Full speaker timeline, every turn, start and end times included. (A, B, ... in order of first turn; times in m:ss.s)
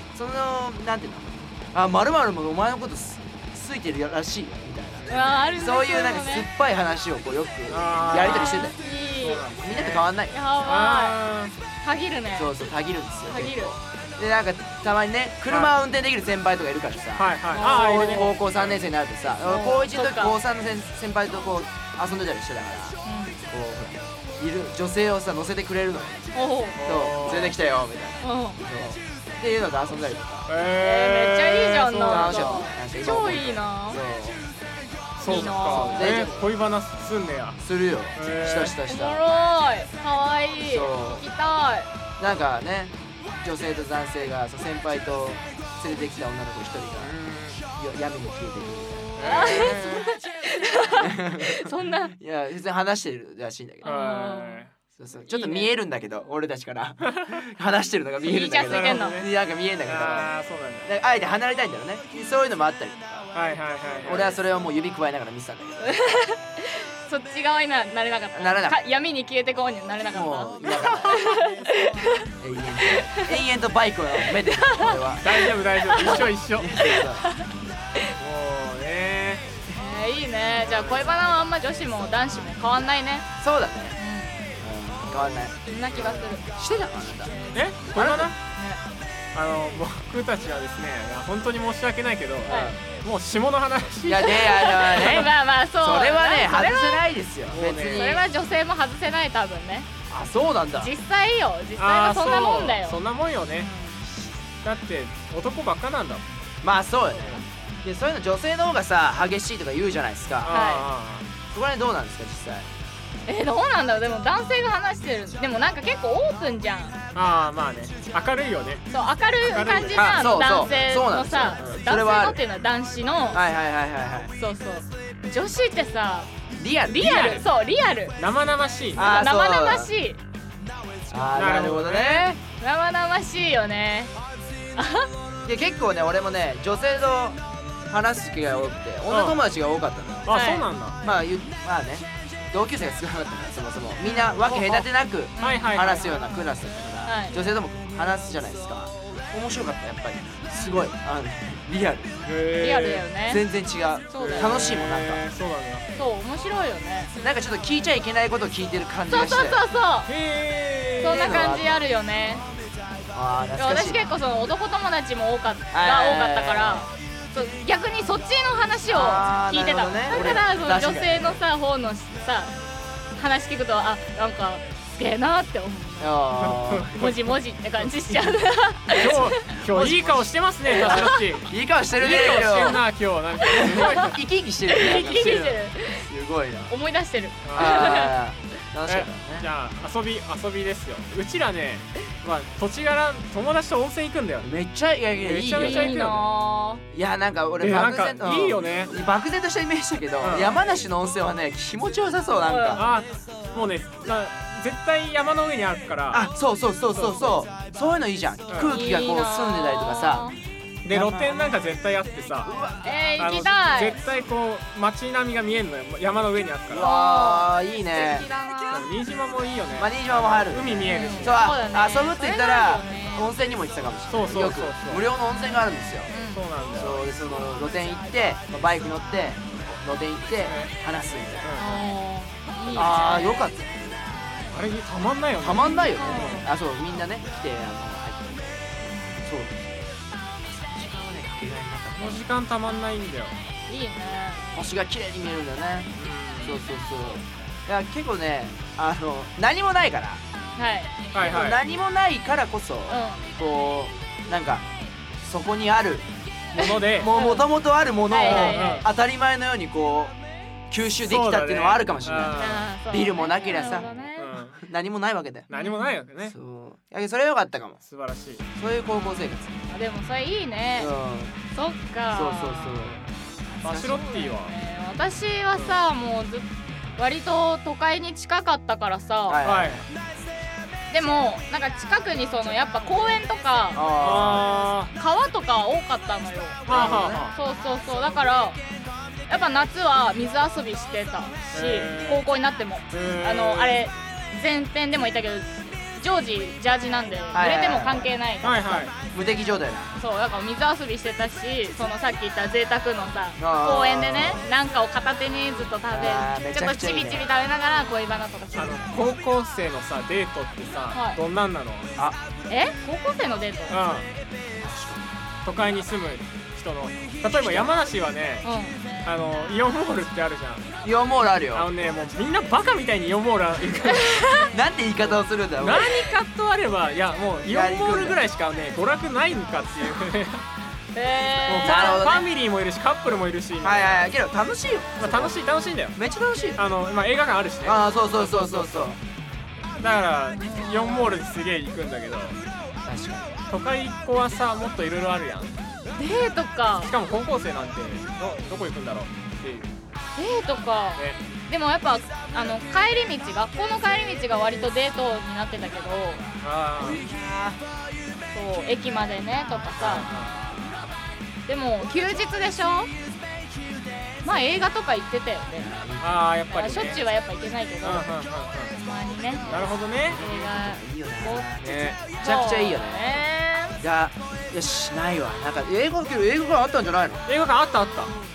0:00.1-0:08.8 A
0:05.1-0:06.5 B
0:07.7-0:10.1 C
0:08.1-0:09.5 B
0:09.6-0:10.3 A
0:10.3-0:11.2 B
0:10.6-0:11.5 C
0:11.8-0:12.6 B
0:12.3-0:30.5 A
0:13.3-0:13.7 B
0:15.5-0:15.7 C
0:17.2-0:18.9 C
0:17.5-0:18.3 B
0:19.4-0:20.4 B
0:23.0-0:23.4 B
0:26.3-0:26.8 B
0:26.8-0:27.6 C
0:28.2-0:28.6 B
0:30.5-0:32.6 C
0:30.7-0:34.0 B
0:32.0-0:34.4 A
0:35.2-0:37.6 C
0:35.2-0:36.3 B
0:35.7-0:36.4 A
0:37.6-0:39.2 A
0:38.1-0:38.8 C
0:38.9-0:41.9 B
0:40.7-0:41.2 A
0:42.2-0:47.1 A
0:47.0-0:47.6 C
0:47.7-0:49.7 A
0:49.2-0:50.1 C
0:49.2-0:52.1 B
0:51.0-0:53.9 A
0:53.8-0:54.6 B
0:53.8-0:54.7 C
0:55.0-1:00.3 A
0:55.3-0:55.7 B
0:57.1-0:57.4 C
0:58.2-0:59.2 B
0:58.6-1:00.9 C
1:00.8-1:03.3 A
1:03.3-1:04.3 C
1:04.0-1:06.0 A
1:05.8-1:12.3 B
1:08.3-1:08.8 A
1:10.1-1:11.2 A
1:12.4-1:15.4 A
1:12.8-1:13.3 B
1:14.6-1:17.5 B
1:15.2-1:16.7 C
1:15.9-1:17.3 A
1:18.2-1:19.4 C
1:19.7-1:23.3 B
1:20.5-1:21.1 C
1:23.4-1:24.0 A
1:24.0-1:24.6 B
1:24.6-1:25.5 A
1:25.2-1:26.2 C
1:25.6-1:26.5 B
1:26.6-1:27.3 A
1:27.2-1:27.7 B
1:27.5-1:28.4 C
1:27.9-1:28.3 A
1:28.5-1:28.8 B
1:29.3-1:35.2 C
1:32.5-1:32.8 A
1:32.5-1:32.8 B
1:34.0-1:38.2 A
1:34.2-1:37.0 B
1:37.5-1:38.2 C
1:37.9-1:39.9 B
1:40.1-1:40.9 A
1:40.8-1:43.0 B
1:41.8-1:43.7 C
1:43.6-1:44.0 B
1:44.6-1:46.2 C
1:46.6-1:50.6 A
1:50.4-1:51.3 C
1:50.5-1:50.9 B
1:51.5-1:52.7 A
1:53.2-1:57.0 B
1:57.1-1:58.8 C
1:58.9-2:03.4 B
1:59.4-2:00.9 C
1:59.9-2:02.4 A
2:01.6-2:01.8 C
2:03.3-2:04.3 A
2:04.4-2:06.3 B
2:06.5-2:07.4 A
2:06.8-2:08.2 B
2:07.1-2:07.4 C
2:08.2-2:09.1 C
2:08.9-2:09.9 A
2:09.1-2:10.2 B
2:11.1-2:12.4 A
2:11.3-2:12.3 C
2:12.6-2:14.1 B
2:14.8-2:15.1 B
2:15.4-2:20.4 A
2:19.1-2:19.4 C
2:20.2-2:21.0 C
2:20.3-2:20.6 B
2:21.0-2:32.3 A
2:24.0-2:24.3 B
2:24.4-2:24.9 C
2:25.4-2:25.7 B
2:25.4-2:26.1 C
2:27.0-2:27.4 B
2:30.5-2:30.8 B
2:32.2-2:33.0 C
2:32.6-2:33.4 B
2:33.3-2:35.2 A
2:34.1-2:34.5 B
2:34.1-2:35.8 C
2:35.9-2:37.1 B
2:37.2-2:39.6 A
2:39.1-2:40.1 B
2:40.1-2:41.6 C
2:41.0-2:42.5 B
2:41.1-2:41.8 A
2:43.1-2:44.0 A
2:43.6-2:52.6 B
2:45.7-2:46.9 A
2:48.9-2:51.4 A
2:53.1-2:56.3 B
2:56.0-2:57.0 A
2:56.4-2:57.1 C
2:56.9-2:59.4 B
2:58.9-3:04.2 C
2:59.0-3:02.8 A
3:00.8-3:01.2 B
3:03.4-3:06.7 A
3:03.5-3:04.1 B
3:04.7-3:06.0 B
3:05.0-3:05.6 C
3:06.7-3:08.1 B
3:07.4-3:08.0 C
3:07.5-3:09.5 A
3:08.8-3:14.5 C
3:14.4-3:16.0 A
3:15.2-3:16.2 C
3:15.6-3:16.8 B
3:16.9-3:22.8 A
3:17.6-3:18.9 C
3:20.2-3:20.6 C
3:22.4-3:22.9 B
3:22.8-3:26.3 C
3:26.1-3:30.3 A
3:26.9-3:27.4 C
3:28.5-3:28.7 C
3:28.7-3:30.4 B
3:30.8-3:32.6 C
3:30.9-3:31.7 A
3:32.4-3:32.8 A
3:32.8-3:34.0 B
3:33.2-3:36.9 C
3:36.7-3:38.3 A
3:36.8-3:38.9 B
3:38.7-3:41.4 C
3:39.8-3:46.1 A
3:40.8-3:43.3 B
3:44.1-3:45.0 C
3:45.3-3:46.5 B
3:46.3-3:47.0 C
3:46.7-3:51.8 A
3:50.5-3:50.7 C
3:51.4-3:51.7 C
3:51.6-3:53.5 B
3:52.7-3:54.1 A
3:54.5-3:56.4 C
3:55.4-3:59.9 A
3:55.6-3:56.5 B
3:58.8-3:59.2 B
4:00.6-4:02.2 A
4:01.9-4:03.4 C
4:03.7-4:04.5 B
4:04.5-4:10.2 A
4:06.0-4:06.6 C
4:10.6-4:11.1 B
4:11.1-4:11.6 C
4:11.1-4:14.6 A
4:12.9-4:13.2 B
4:15.2-4:20.1 A
4:16.5-4:17.1 C
4:17.1-4:17.5 B
4:18.1-4:18.8 B
4:18.2-4:18.9 C
4:20.7-4:24.0 A
4:21.0-4:22.6 C
4:22.3-4:24.4 B
4:24.2-4:24.6 C
4:24.6-4:25.5 A
4:25.5-4:26.3 C
4:25.5-4:25.9 B
4:26.2-4:27.8 A
4:27.8-4:28.4 C
4:28.6-4:29.6 A
4:28.9-4:30.9 B
4:30.8-4:31.3 A
4:31.5-4:33.0 B
4:32.1-4:33.0 A
4:33.6-4:34.5 C
4:33.7-4:34.0 A
4:33.7-4:39.4 B
4:35.5-4:35.8 C
4:39.3-4:39.8 A
4:39.4-4:39.8 C
4:40.9-4:43.8 B
4:43.7-4:44.6 A
4:43.9-4:44.9 C
4:44.9-4:48.6 B
4:46.6-4:47.3 A
4:46.7-4:47.3 C
4:49.3-4:58.9 B
4:51.5-4:52.2 C
4:52.9-4:53.9 C
4:57.3-4:58.1 A
4:58.4-4:58.9 C
4:59.1-4:59.9 A
5:00.0-5:09.0 B
5:03.4-5:04.5 A
5:05.9-5:07.2 A
5:08.5-5:11.9 C
5:10.9-5:11.2 B
5:12.5-5:13.8 B
5:13.7-5:14.1 C
5:14.6-5:15.1 A
5:15.4-5:18.4 C
5:17.3-5:17.7 A
5:18.4-5:18.8 B
5:19.0-5:20.6 C
5:20.8-5:21.7 A
5:21.5-5:24.5 C
5:24.5-5:26.0 A
5:25.0-5:30.4 C
5:27.4-5:28.2 A
5:30.9-5:32.2 B
5:31.5-5:34.1 C
5:31.6-5:32.3 A
5:33.6-5:35.3 A
5:35.0-5:36.0 C
5:35.9-5:36.6 A
5:36.6-5:39.0 C
5:37.6-5:39.0 A
5:39.8-5:42.4 C
5:40.3-5:41.2 B
5:42.8-5:43.4 A
5:43.5-5:45.6 C
5:45.9-5:46.9 B
5:46.8-5:49.7 C
5:50.1-5:56.2 B
5:56.4-5:57.0 C
5:56.8-5:57.6 A
5:58.3-6:00.1 B
5:59.8-6:00.3 C
5:59.8-6:00.8 A
6:01.5-6:02.9 B
6:04.2-6:05.8 B
6:05.5-6:06.2 A
6:06.0-6:07.0 C
6:06.5-6:08.1 B
6:07.8-6:08.7 C
6:08.7-6:13.8 B
6:09.4-6:10.2 C
6:10.0-6:13.2 A
6:11.6-6:12.0 C
6:13.8-6:17.2 A
6:17.3-6:18.1 C